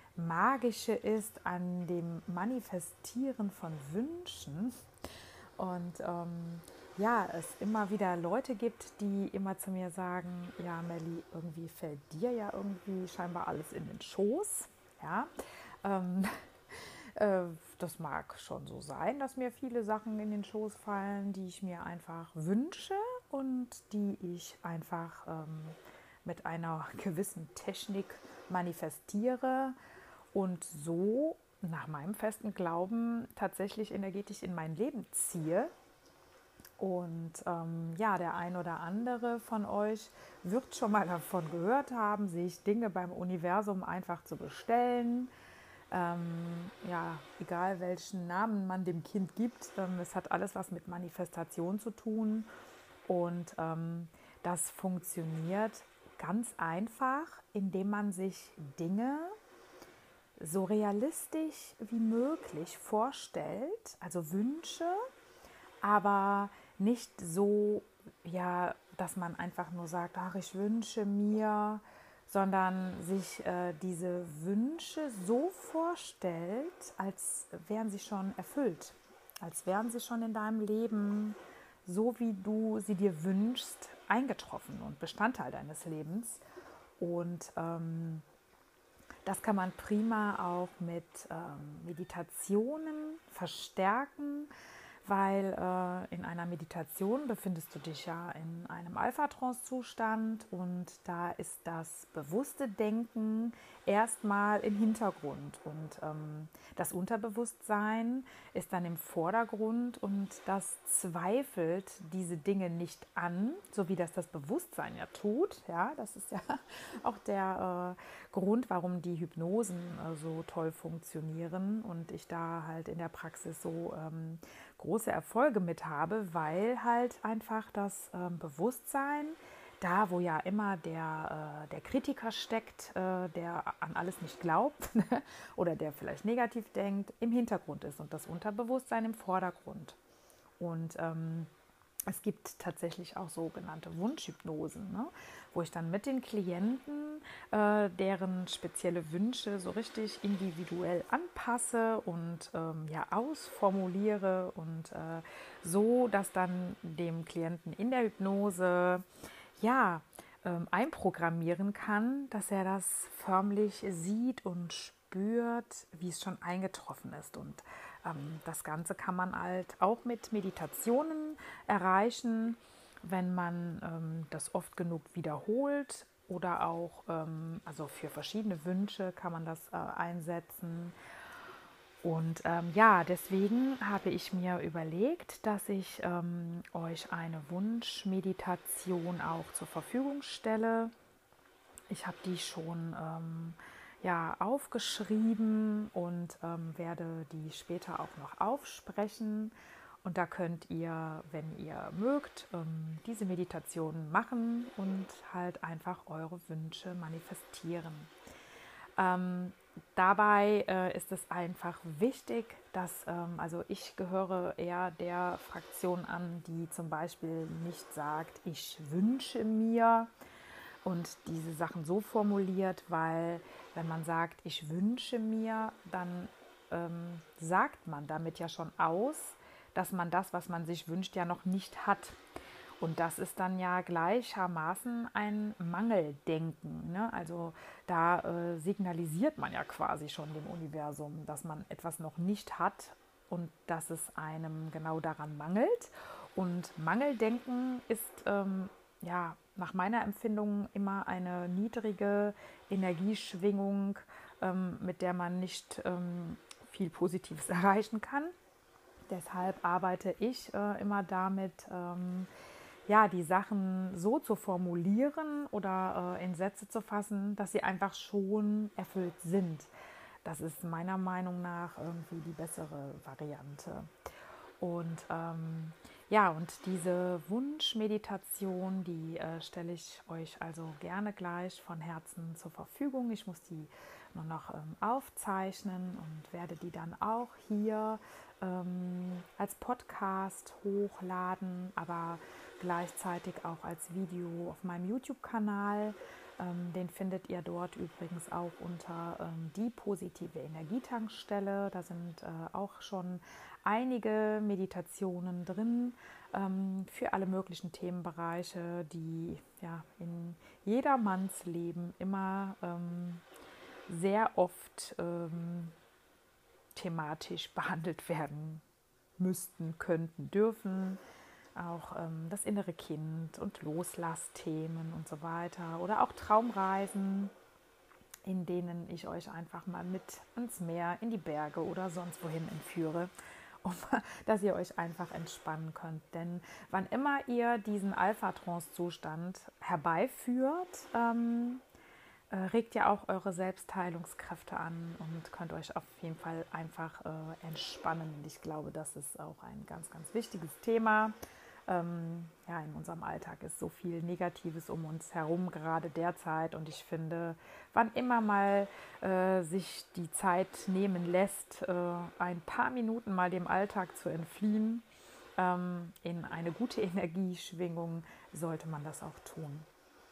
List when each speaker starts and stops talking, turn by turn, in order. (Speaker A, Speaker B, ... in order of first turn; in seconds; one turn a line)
Speaker A: 0.2-4.8
Speaker A: 5.6-15.3
Speaker A: 15.8-29.8
Speaker A: 30.3-35.7
Speaker A: 36.8-45.3
Speaker A: 45.9-52.5
Speaker A: 53.1-59.4
Speaker A: 60.4-65.0
Speaker A: 65.8-86.4
Speaker A: 87.0-88.2
Speaker A: 89.2-94.5
Speaker A: 95.0-140.0
Speaker A: 140.6-141.5
Speaker A: 142.1-159.0
Speaker A: 159.6-180.9
Speaker A: 182.0-190.9
Speaker A: 191.9-208.1
Speaker A: 209.0-220.1
Speaker A: 220.8-232.2
Speaker A: 232.8-258.3
Speaker A: 259.1-262.3
Speaker A: 262.9-269.7
Speaker A: 270.2-273.9
Speaker A: 274.6-313.2
Speaker A: 313.9-315.8
Speaker A: 316.8-318.6
Speaker A: 319.2-321.0
Speaker A: 321.6-327.3
Speaker A: 328.2-333.1
Speaker A: 333.6-341.6
Speaker A: 342.3-351.2
Speaker A: 351.7-364.9
Speaker A: 365.4-369.7